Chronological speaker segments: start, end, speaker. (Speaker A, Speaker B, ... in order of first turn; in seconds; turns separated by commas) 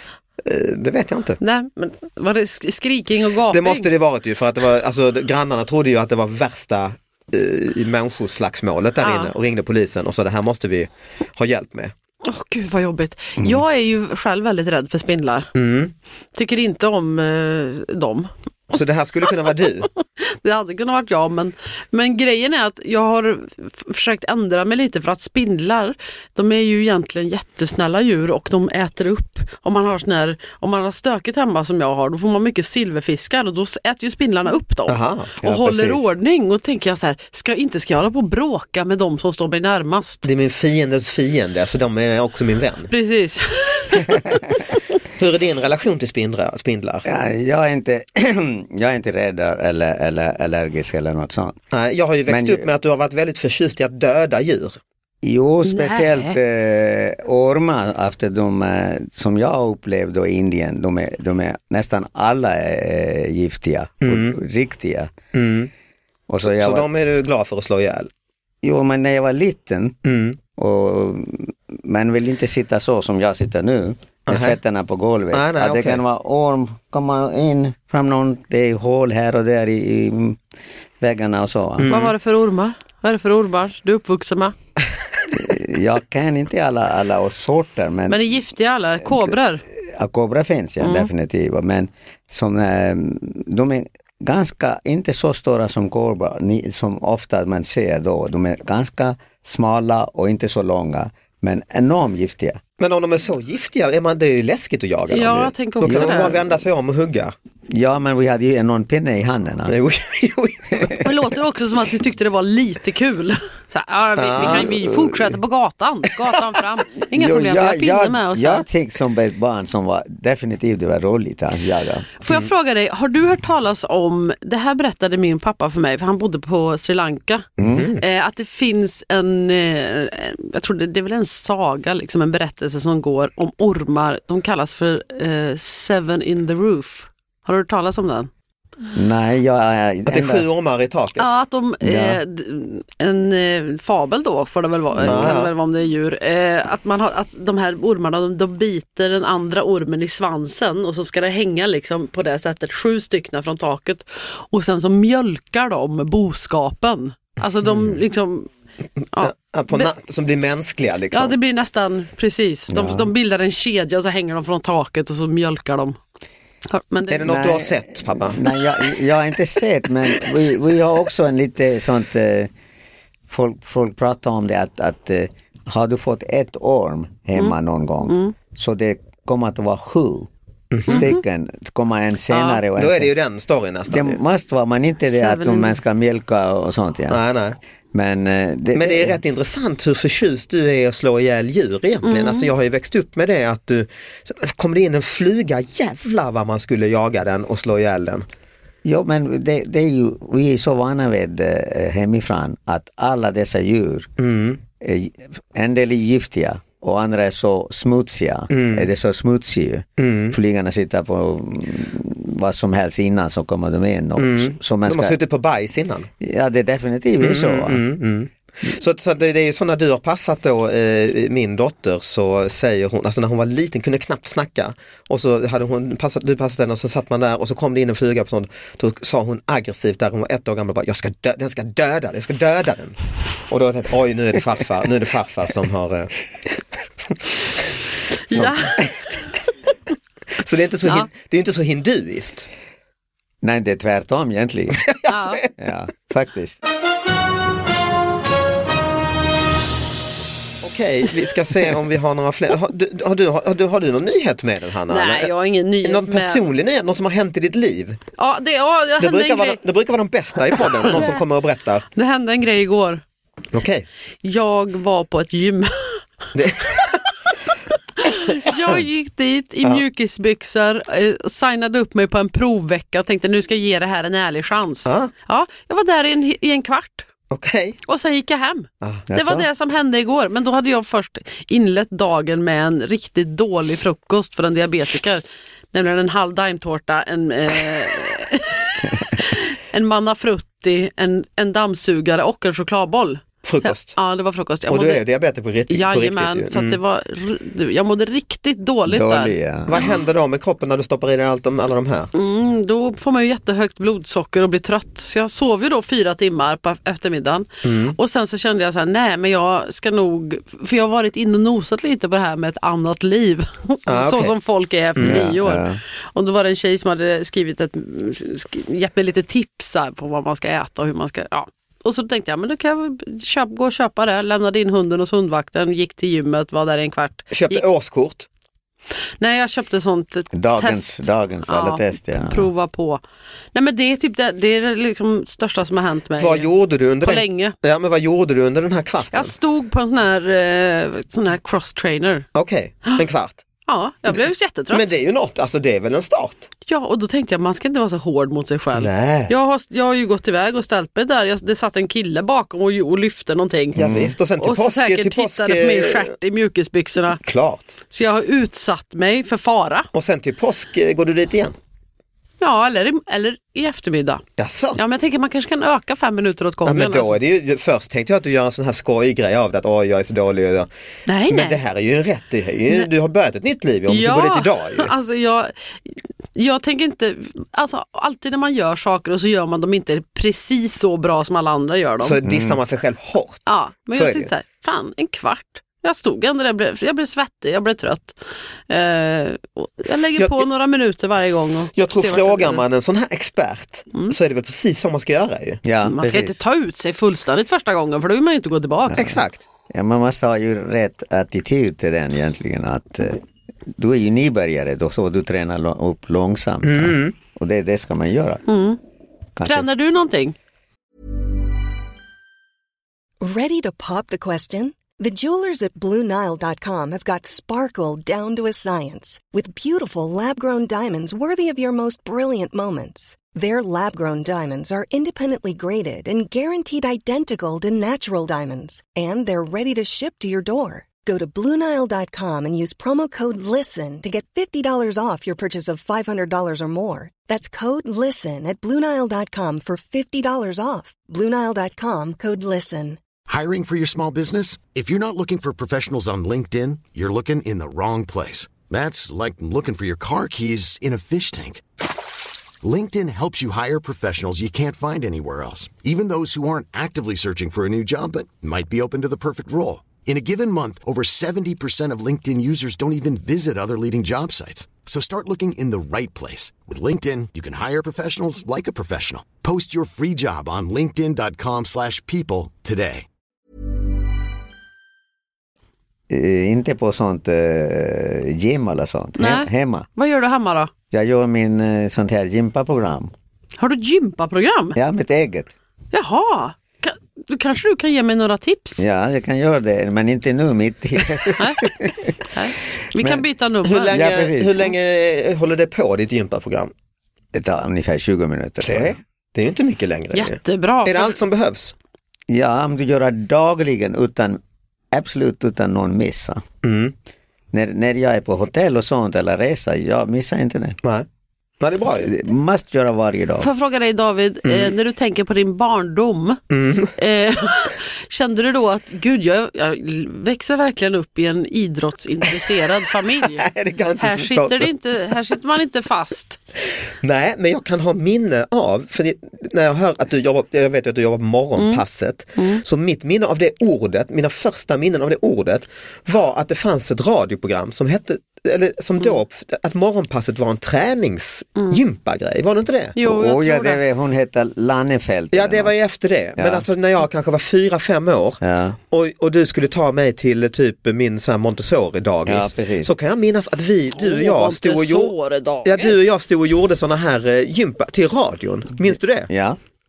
Speaker A: 0.4-1.4, Speaker B: 1.4-3.9, Speaker A: 3.5-11.9, Speaker B: 9.0-9.3, Speaker B: 12.2-15.5, Speaker A: 15.6-15.9, Speaker B: 16.4-18.3, Speaker A: 18.7-19.9, Speaker B: 20.2-40.3, Speaker A: 34.9-35.3, Speaker C: 35.4-36.1, Speaker A: 40.2-42.9, Speaker B: 42.9-44.4, Speaker A: 45.2-47.1, Speaker C: 47.0-51.6, Speaker A: 51.7-54.8, Speaker C: 52.3-52.7, Speaker C: 55.2-65.1, Speaker B: 55.6-56.4, Speaker A: 64.0-64.4, Speaker A: 65.3-65.7, Speaker C: 66.3-66.9, Speaker A: 66.4-68.1, Speaker C: 68.6-70.0, Speaker A: 70.0-70.4, Speaker C: 70.6-80.4, Speaker A: 74.3-74.6, Speaker A: 75.3-76.0, Speaker C: 81.0-81.9, Speaker A: 81.8-82.1, Speaker B: 81.9-84.5, Speaker C: 85.3-88.4, Speaker B: 88.1-89.6, Speaker C: 89.0-102.6, Speaker B: 90.8-91.1, Speaker A: 102.8-107.3, Speaker B: 105.1-106.3, Speaker C: 105.8-106.4, Speaker C: 107.7-109.8, Speaker A: 109.7-111.1, Speaker B: 111.0-118.6, Speaker A: 114.2-114.7, Speaker C: 114.4-115.4, Speaker C: 117.0-122.1, Speaker B: 122.2-127.5, Speaker C: 127.6-127.9, Speaker A: 127.6-128.0, Speaker B: 128.0-138.3, Speaker C: 138.9-140.4, Speaker A: 140.1-141.3, Speaker B: 141.2-158.5, Speaker C: 141.8-142.2, Speaker C: 145.0-145.3, Speaker A: 145.1-145.5, Speaker B: 159.1-159.9, Speaker A: 159.2-161.3, Speaker B: 161.1-166.0, Speaker C: 162.7-163.1, Speaker B: 166.7-167.3, Speaker A: 167.1-168.5, Speaker C: 167.2-172.5, Speaker C: 173.3-180.3, Speaker B: 177.4-178.3, Speaker A: 180.7-181.1, Speaker C: 180.9-183.1, Speaker B: 180.9-181.2, Speaker B: 182.3-182.6, Speaker A: 182.8-184.2, Speaker C: 183.9-187.2, Speaker B: 185.0-185.8, Speaker A: 187.1-187.6, Speaker C: 187.9-189.2, Speaker A: 188.8-198.3, Speaker B: 192.0-192.5, Speaker C: 198.8-204.1, Speaker A: 204.2-204.6, Speaker C: 204.8-215.2, Speaker A: 208.5-208.9, Speaker A: 210.0-210.4, Speaker A: 214.2-216.1, Speaker C: 216.2-217.8, Speaker A: 217.2-233.0, Speaker A: 233.5-236.1, Speaker B: 238.3-238.9, Speaker A: 238.3-238.9, Speaker A: 240.4-242.5, Speaker C: 243.4-244.8, Speaker A: 244.8-245.3, Speaker B: 245.1-245.4, Speaker C: 245.6-246.6, Speaker A: 250.6-255.3, Speaker B: 254.9-256.4, Speaker A: 255.8-258.0, Speaker B: 258.2-259.6, Speaker A: 259.0-261.9, Speaker B: 260.6-261.2, Speaker B: 262.0-263.0, Speaker A: 263.5-263.9, Speaker B: 264.2-266.0, Speaker A: 266.4-267.0, Speaker B: 268.0-277.1, Speaker A: 268.4-268.8, Speaker A: 274.9-275.1, Speaker A: 277.3-277.8, Speaker B: 277.9-295.0, Speaker C: 279.1-279.5, Speaker A: 293.4-294.0, Speaker A: 294.7-296.8, Speaker B: 295.7-300.0, Speaker C: 298.9-299.8, Speaker A: 299.7-302.1, Speaker B: 302.1-327.6, Speaker A: 307.6-308.0, Speaker A: 313.9-314.3, Speaker A: 315.0-315.2, Speaker C: 315.0-315.8, Speaker A: 327.3-328.3, Speaker B: 329.2-333.0, Speaker C: 330.3-332.5, Speaker B: 333.5-336.5, Speaker A: 336.2-339.4, Speaker B: 337.0-337.6, Speaker B: 339.1-342.3, Speaker A: 342.4-343.4, Speaker B: 343.7-344.9, Speaker A: 344.7-346.5, Speaker B: 346.7-353.8, Speaker A: 348.7-349.3, Speaker A: 353.8-356.1, Speaker C: 353.8-354.1, Speaker B: 354.4-357.2, Speaker A: 357.2-357.8, Speaker B: 357.9-359.9, Speaker A: 359.9-361.6, Speaker B: 362.4-364.2, Speaker A: 364.4-364.8, Speaker B: 364.8-367.2, Speaker A: 366.7-370.7, Speaker B: 371.1-371.6, Speaker A: 371.3-374.9, Speaker B: 373.9-382.2, Speaker A: 382.0-384.3, Speaker C: 382.2-382.6, Speaker B: 383.5-388.2, Speaker B: 388.7-392.6, Speaker A: 390.2-390.5, Speaker A: 391.8-395.6, Speaker C: 395.6-396.4, Speaker B: 395.8-399.0, Speaker C: 398.9-399.2, Speaker A: 398.9-399.4, Speaker C: 399.7-408.4, Speaker A: 406.6-407.1, Speaker B: 408.5-408.8, Speaker C: 409.4-409.7, Speaker B: 409.4-410.4, Speaker D: 413.2-443.0, Speaker E: 443.3-451.6, Speaker E: 452.6-473.1, Speaker C: 476.1-479.9, Speaker B: 479.2-480.7, Speaker C: 480.9-483.1, Speaker B: 483.6-484.8, Speaker C: 484.8-485.5, Speaker B: 485.9-488.8, Speaker C: 488.8-492.1, Speaker B: 492.3-494.0, Speaker C: 493.0-493.2, Speaker A: 493.6-496.7, Speaker C: 493.9-494.6, Speaker C: 497.3-499.0, Speaker A: 498.6-501.8, Speaker B: 500.1-501.2, Speaker C: 502.3-504.4, Speaker C: 504.9-506.4, Speaker A: 506.6-506.9, Speaker C: 507.5-510.8, Speaker A: 511.6-512.1, Speaker C: 512.0-513.5, Speaker B: 513.4-516.4, Speaker A: 514.5-514.7, Speaker A: 516.5-517.0, Speaker B: 517.0-526.4, Speaker A: 523.4-524.7, Speaker A: 527.0-543.0, Speaker B: 532.4-532.6, Speaker B: 543.0-543.8, Speaker C: 543.0-545.7, Speaker A: 545.3-555.1, Speaker C: 546.4-546.7, Speaker C: 548.4-548.8, Speaker C: 552.3-552.9, Speaker B: 554.0-556.0, Speaker A: 555.6-559.3, Speaker C: 559.3-559.6